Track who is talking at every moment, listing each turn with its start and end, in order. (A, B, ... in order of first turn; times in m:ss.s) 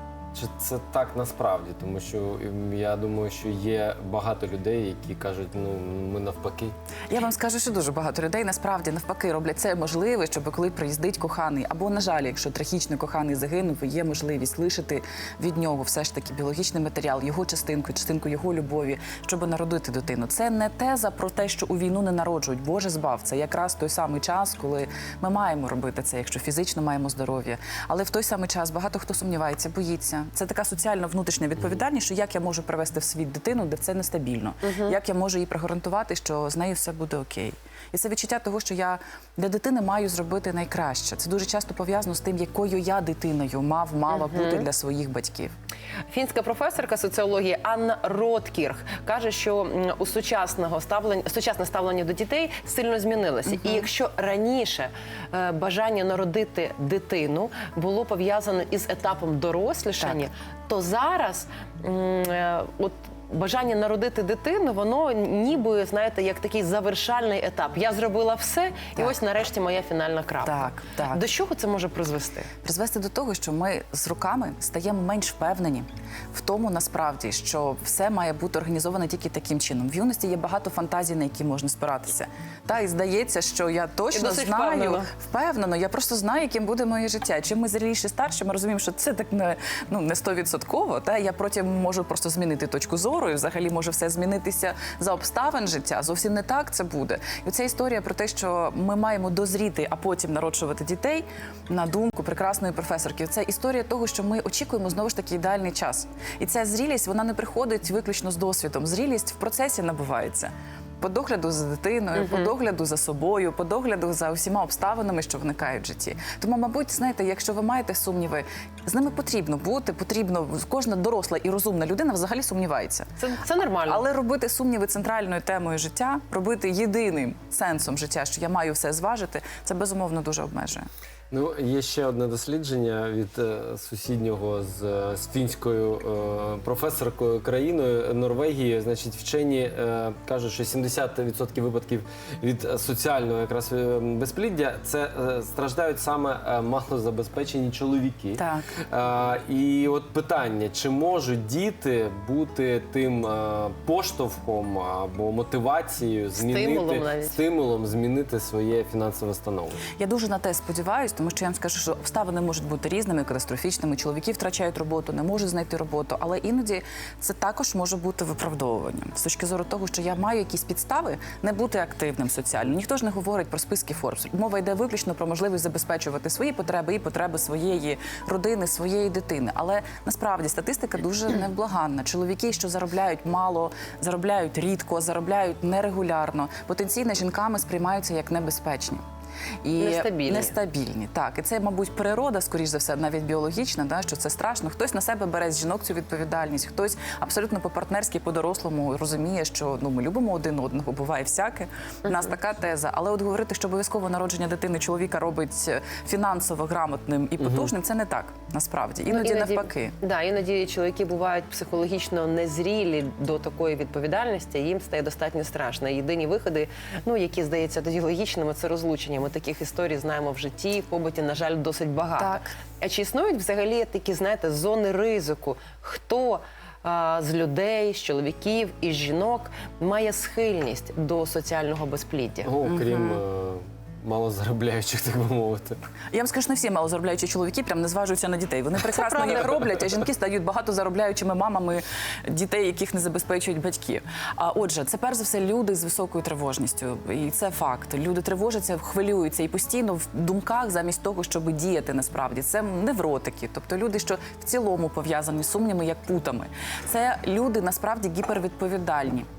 0:00.3-0:06.7 A
0:07.1-0:45.5 B
0:34.6-0:35.0 C
0:44.1-0:44.6 C
0:46.1-1:12.5 C
1:10.4-1:11.2 B
1:12.6-2:03.1 B
1:24.1-1:25.1 C
1:52.1-1:52.5 C
2:03.2-2:04.0 C
2:03.8-2:10.8 B
2:11.3-2:39.9 A
2:28.4-2:28.8 B
2:36.4-2:37.4 C
2:39.9-3:09.0 B
3:09.6-3:29.9 B
3:09.8-3:10.6 C
3:22.0-3:22.3 C
3:27.4-3:27.7 A
3:29.1-3:52.5 C
3:42.2-3:42.5 B
3:52.4-3:55.8 A
3:52.6-3:53.2 B
3:56.1-4:19.2 B
3:59.0-3:59.5 C